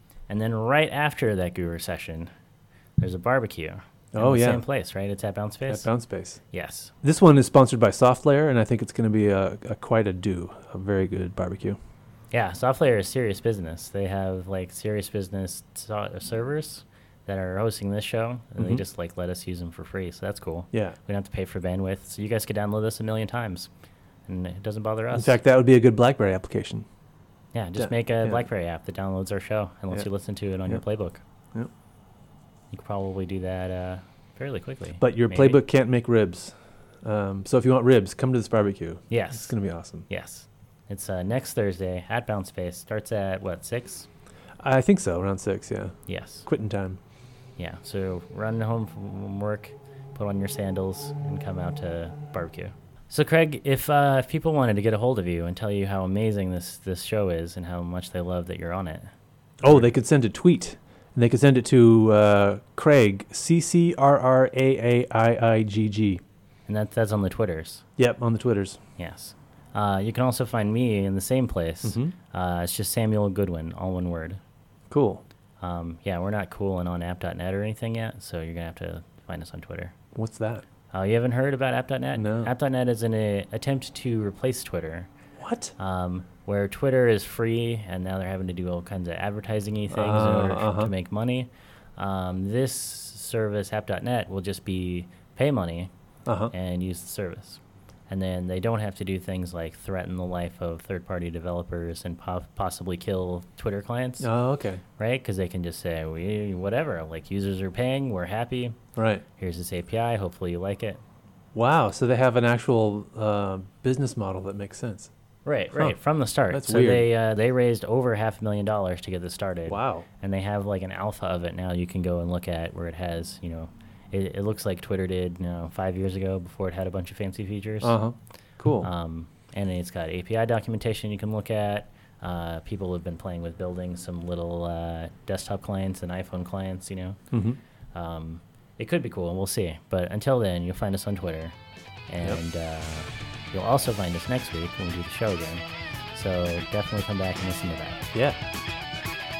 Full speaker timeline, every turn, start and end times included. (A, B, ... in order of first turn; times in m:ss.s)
0:00.3-0:02.3 A
0:03.0-0:05.9 A
0:04.1-0:04.6 B
0:05.7-0:06.4 B
0:06.5-0:06.9 A
0:07.0-0:11.8 B
0:12.3-0:23.7 A
0:24.3-0:25.4 A
0:25.1-0:26.8 B
0:27.5-0:31.2 A
0:27.8-0:28.4 B
0:32.7-0:35.6 A
0:35.0-0:40.1 B
0:39.1-0:44.1 A
0:44.6-0:47.0 B
0:46.1-0:46.4 A
0:47.6-0:59.1 A
0:59.6-1:06.2 B
1:06.7-1:07.8 A
1:08.0-1:08.8 B
1:09.0-1:14.4 A
1:11.8-1:12.1 B
1:14.9-1:15.2 B
1:15.6-1:19.9 A
1:20.1-1:20.6 B
1:20.9-1:25.1 A
1:22.2-1:22.5 B
1:25.4-1:25.7 B
1:25.8-1:35.9 A
1:29.9-1:30.9 B
1:36.2-1:36.5 B
1:36.5-1:44.3 A
1:44.2-1:44.8 B
1:45.0-1:48.8 A
1:49.0-1:49.2 B
1:49.4-1:51.0 A
1:51.5-1:55.1 B
1:55.4-2:08.0 A
1:56.5-1:57.1 B
1:59.7-2:00.0 B
2:07.8-2:08.9 B
2:08.8-2:17.2 A
2:17.3-2:17.6 B
2:17.9-2:21.6 A
2:22.1-2:28.1 A